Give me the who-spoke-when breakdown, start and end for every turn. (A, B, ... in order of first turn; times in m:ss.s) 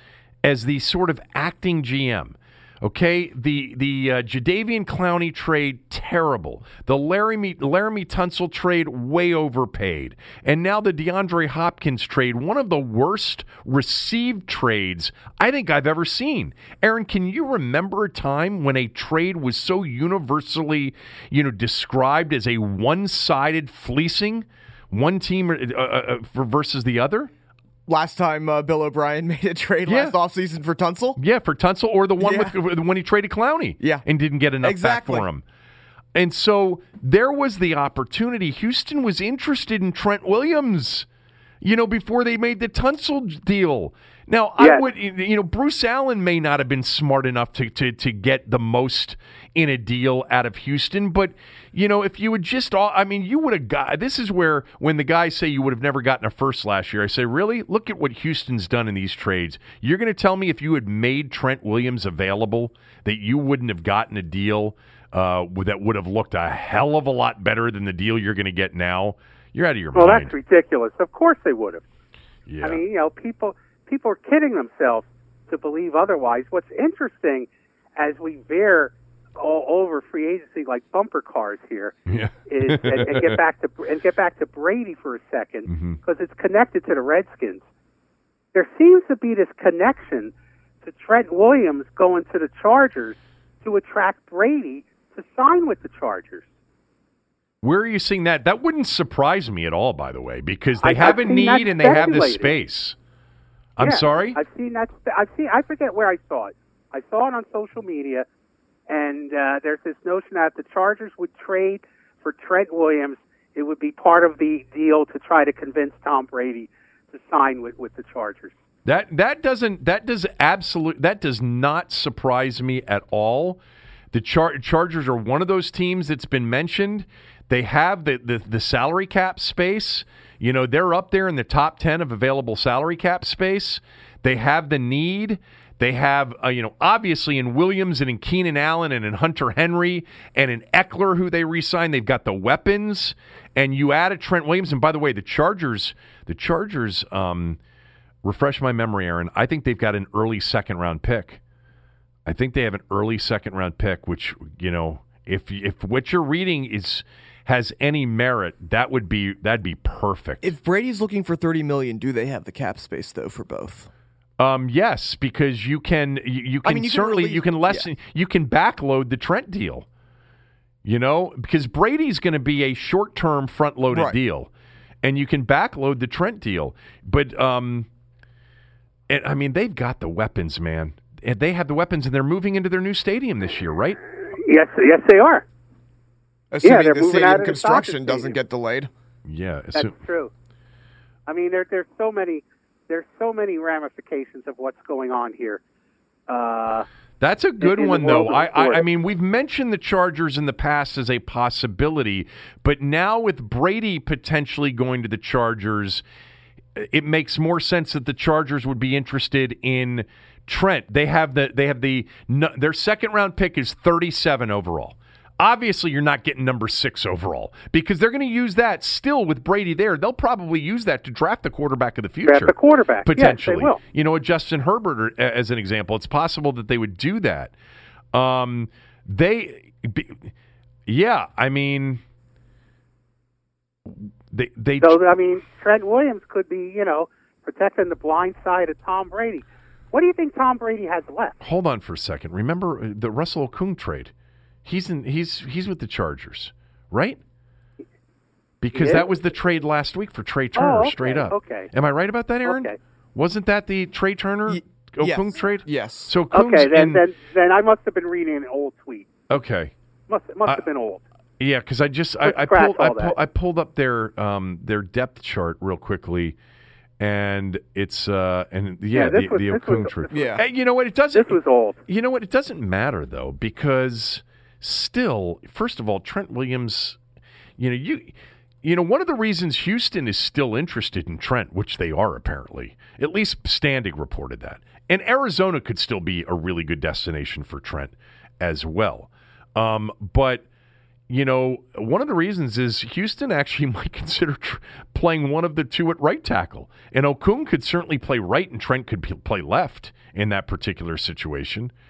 0:00.4-0:27.3 A
0:27.9-0:31.2 B
0:29.9-0:30.1 A
0:31.2-0:35.4 A
0:32.2-0:32.5 B
0:33.8-0:34.0 B
0:34.6-0:35.3 B
0:36.1-0:41.1 A
0:41.6-1:10.3 A
0:44.6-0:44.8 C
1:09.9-1:11.8 C
1:12.5-1:12.8 A
1:12.6-1:21.9 C
1:22.1-1:23.4 A
1:22.5-1:27.6 C
1:25.7-1:26.0 A
1:28.5-1:30.3 C
1:30.8-1:36.4 C
1:37.6-1:43.0 A
1:40.8-1:42.5 C
1:43.8-1:44.4 A
1:43.8-1:48.2 C
1:48.9-1:58.5 C
1:58.8-2:03.6 A
2:04.1-2:27.6 A
2:28.2-2:31.4 A
2:32.2-2:40.5 A
2:40.4-2:43.9 B
2:44.4-2:49.8 A
2:46.6-2:47.8 B
2:50.8-2:54.5 A
2:53.9-2:54.2 B
2:55.0-2:57.9 A
2:59.1-3:04.0 A
3:04.4-3:05.4 C
3:06.5-3:08.9 B
3:06.6-3:08.4 C
3:09.2-3:09.9 A
3:09.7-3:10.3 C
3:11.3-3:15.6 C
3:16.3-3:16.9 C
3:17.2-3:26.0 A
3:17.6-3:18.8 C
3:26.8-3:42.5 A
3:42.2-3:43.8 C
3:43.0-3:47.5 A
3:48.1-3:50.3 A
3:50.9-3:52.0 A
3:53.8-3:55.0 A
3:54.8-4:01.4 C
4:01.4-4:04.1 A
4:04.6-4:07.2 A
4:08.6-4:17.0 A
4:08.7-4:09.0 C
4:10.6-4:11.7 C
4:12.4-4:12.8 C
4:14.5-4:16.1 B
4:16.3-4:19.1 C
4:19.3-4:19.7 A
4:20.1-4:21.0 C
4:21.4-4:26.4 A
4:22.2-4:23.1 C
4:27.0-4:37.0 A
4:28.9-4:30.3 C
4:30.1-4:30.4 B
4:31.1-4:31.8 C
4:37.6-4:38.1 A
4:38.6-4:50.4 A
4:51.1-5:01.7 A